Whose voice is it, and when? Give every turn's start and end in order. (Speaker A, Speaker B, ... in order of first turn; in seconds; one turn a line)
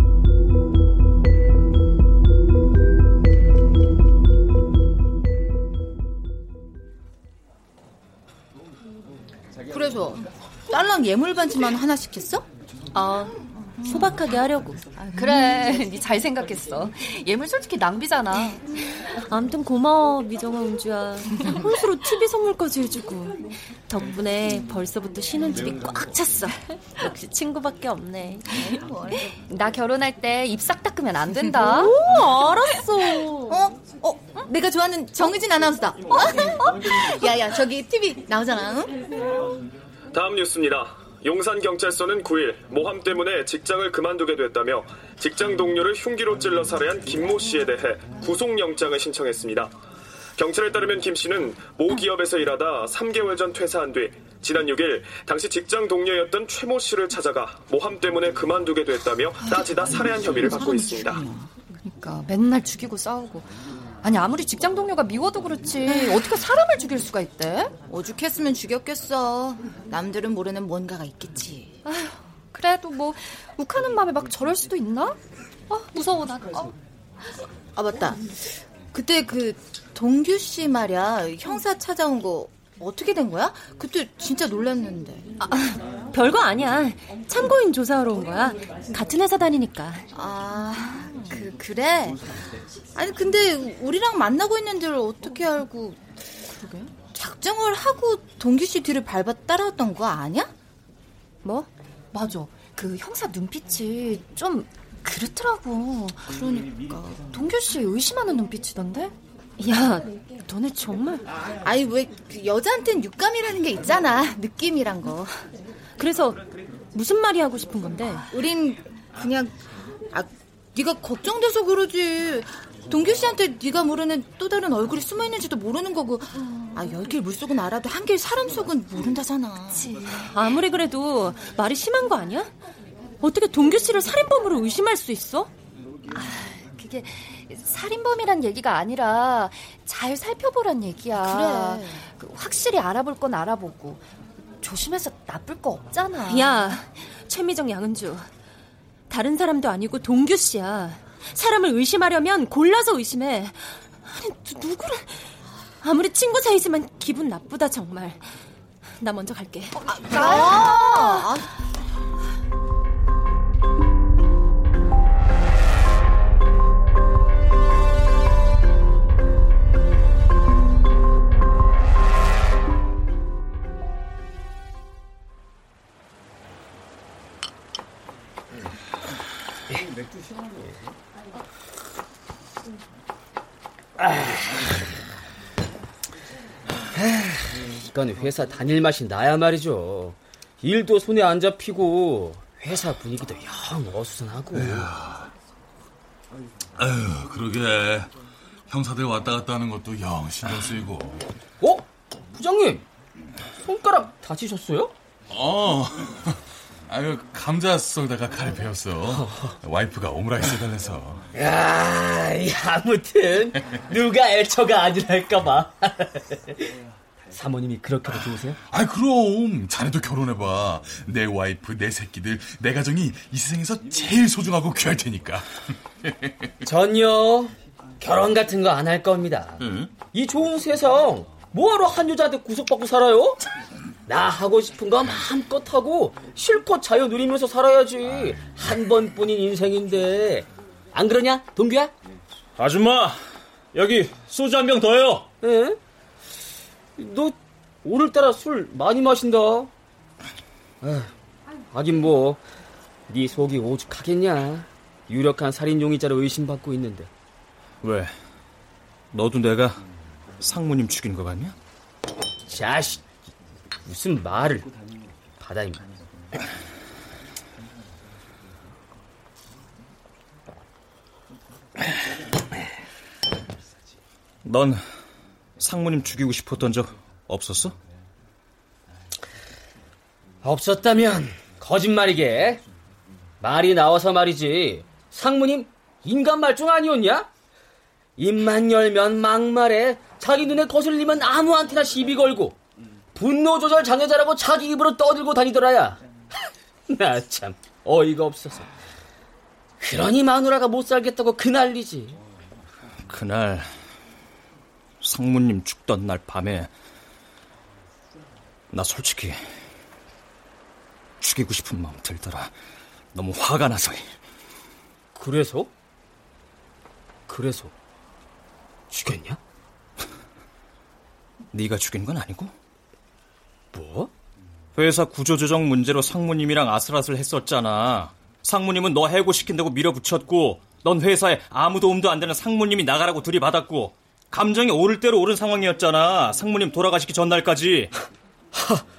Speaker A: 9.7-12.4
Speaker B: 12.9-14.8
Speaker A: 15.0-15.3
Speaker C: 15.1-18.6
Speaker B: 18.9-28.8
Speaker C: 29.4-31.9
Speaker B: 31.6-33.5
Speaker C: 32.7-33.5
Speaker A: 33.5-39.1
Speaker D: 40.1-49.7
Speaker D: 50.4-61.2
Speaker A: 59.6-61.5
Speaker C: 61.9-63.5
Speaker C: 64.0-67.8
Speaker A: 65.8-66.4
Speaker A: 67.7-71.8
Speaker C: 71.9-75.2
Speaker C: 75.7-76.7
Speaker A: 77.7-85.3
Speaker B: 85.4-90.0
Speaker A: 90.1-92.2
Speaker A: 92.9-100.5
Speaker C: 102.1-105.1
Speaker B: 105.2-105.6
Speaker A: 106.2-107.3
Speaker C: 107.3-109.0
Speaker B: 109.6-111.3
Speaker A: 111.6-115.4
Speaker B: 116.0-118.3
Speaker A: 118.3-119.5
Speaker A: 120.1-129.9
Speaker B: 129.7-132.5
Speaker B: 133.2-135.5
Speaker C: 136.1-144.0
Speaker A: 141.2-142.1
Speaker C: 144.6-146.6
Speaker B: 146.2-148.3
Speaker B: 149.1-158.4
Speaker B: 159.0-161.4
Speaker A: 159.8-161.5
Speaker E: 184.0-184.8
Speaker E: 186.9-194.9
Speaker F: 194.5-195.3
Speaker F: 196.8-198.1
Speaker F: 198.7-201.2
Speaker E: 201.6-202.9
Speaker E: 203.6-204.9
Speaker F: 205.3-211.3
Speaker E: 209.1-209.5
Speaker E: 211.3-216.5
Speaker E: 217.3-218.6
Speaker F: 218.7-225.5
Speaker E: 226.6-233.4
Speaker F: 229.6-229.9
Speaker E: 234.1-241.9
Speaker G: 242.6-243.2
Speaker G: 243.7-245.3
Speaker E: 245.4-245.8
Speaker E: 247.0-249.7
Speaker E: 250.8-251.1
Speaker E: 251.7-252.4
Speaker E: 253.1-257.1
Speaker G: 257.8-258.1
Speaker G: 259.1-259.8
Speaker G: 260.4-261.5
Speaker E: 262.5-263.0
Speaker E: 263.8-264.7
Speaker E: 265.4-265.8
Speaker G: 274.4-274.8
Speaker G: 275.6-277.8
Speaker E: 280.4-282.6
Speaker E: 283.4-287.3
Speaker E: 288.2-292.6
Speaker E: 293.1-296.0
Speaker E: 296.9-298.7
Speaker E: 299.8-302.2
Speaker G: 303.1-303.7
Speaker G: 305.0-306.7
Speaker G: 308.7-309.4
Speaker G: 311.2-312.5
Speaker G: 313.1-314.1
Speaker E: 315.1-315.7
Speaker E: 317.3-317.7
Speaker E: 318.9-319.4
Speaker G: 321.5-322.5
Speaker E: 323.7-324.1
Speaker G: 324.7-337.9
Speaker E: 338.5-338.8